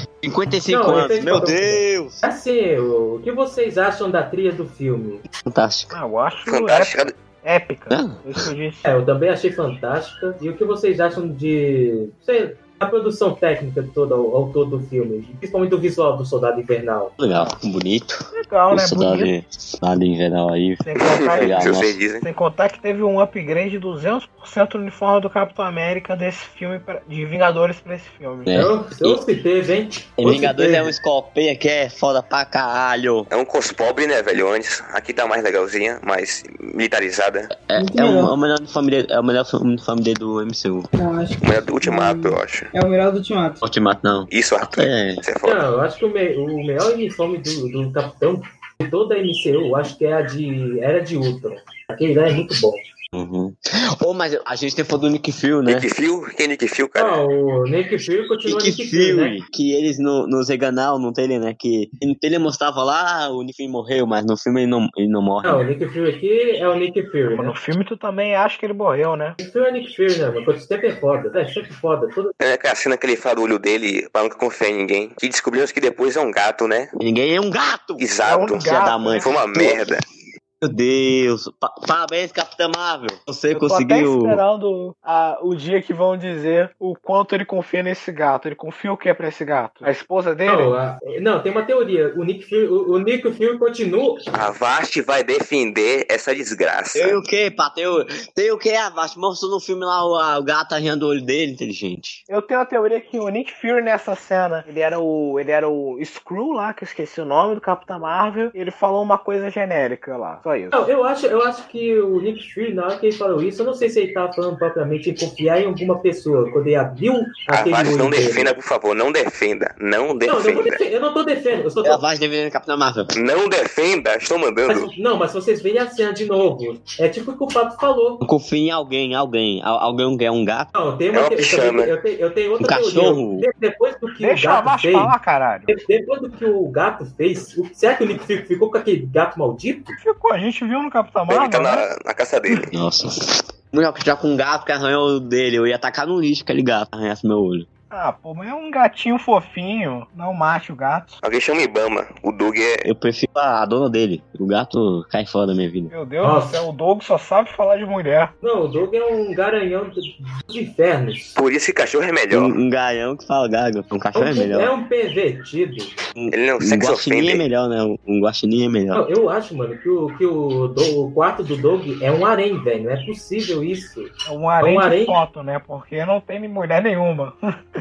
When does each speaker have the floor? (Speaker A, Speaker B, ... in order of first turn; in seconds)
Speaker A: 0.2-2.2, 5.4-6.0, 7.9-8.4, 17.2-22.0, 28.4-29.2, 30.2-33.3, 37.5-40.9, 43.6-45.2, 53.1-55.9, 58.4-65.6, 77.0-79.8, 80.6-84.4, 96.9-102.2, 121.8-123.1, 128.2-130.7, 132.6-133.4, 142.7-147.7, 152.8-155.9, 162.3-164.7, 166.2-169.0
Speaker B: 0.7-5.2, 8.8-17.1, 28.5-30.9, 45.4-52.8, 57.0-59.4, 65.4-67.5, 69.4-72.3, 90.5-94.3, 110.7-118.5, 120.3-122.0, 124.7-128.2, 130.7-135.1, 135.7-140.0, 156.2-156.6, 158.4-161.4, 164.1-165.9, 168.9-175.2
Speaker C: 5.9-8.9, 18.3-19.3, 20.8-28.5, 67.3-69.3, 78.2-79.3, 83.5-90.7, 102.3-110.8, 134.2-135.7, 140.0-141.9, 147.9-151.2, 155.9-158.3, 174.2-177.3
Speaker D: 6.5-7.1, 21.0-22.2, 33.3-37.5, 41.4-42.7, 44.3-45.6, 55.6-57.2, 72.4-76.9, 78.0-78.6, 79.2-80.0, 94.3-97.2, 117.5-120.8, 123.1-124.9, 131.1-131.9, 141.3-142.7, 151.2-152.8, 161.3-162.5, 166.3-167.4
Speaker E: 37.7-38.3, 40.9-43.6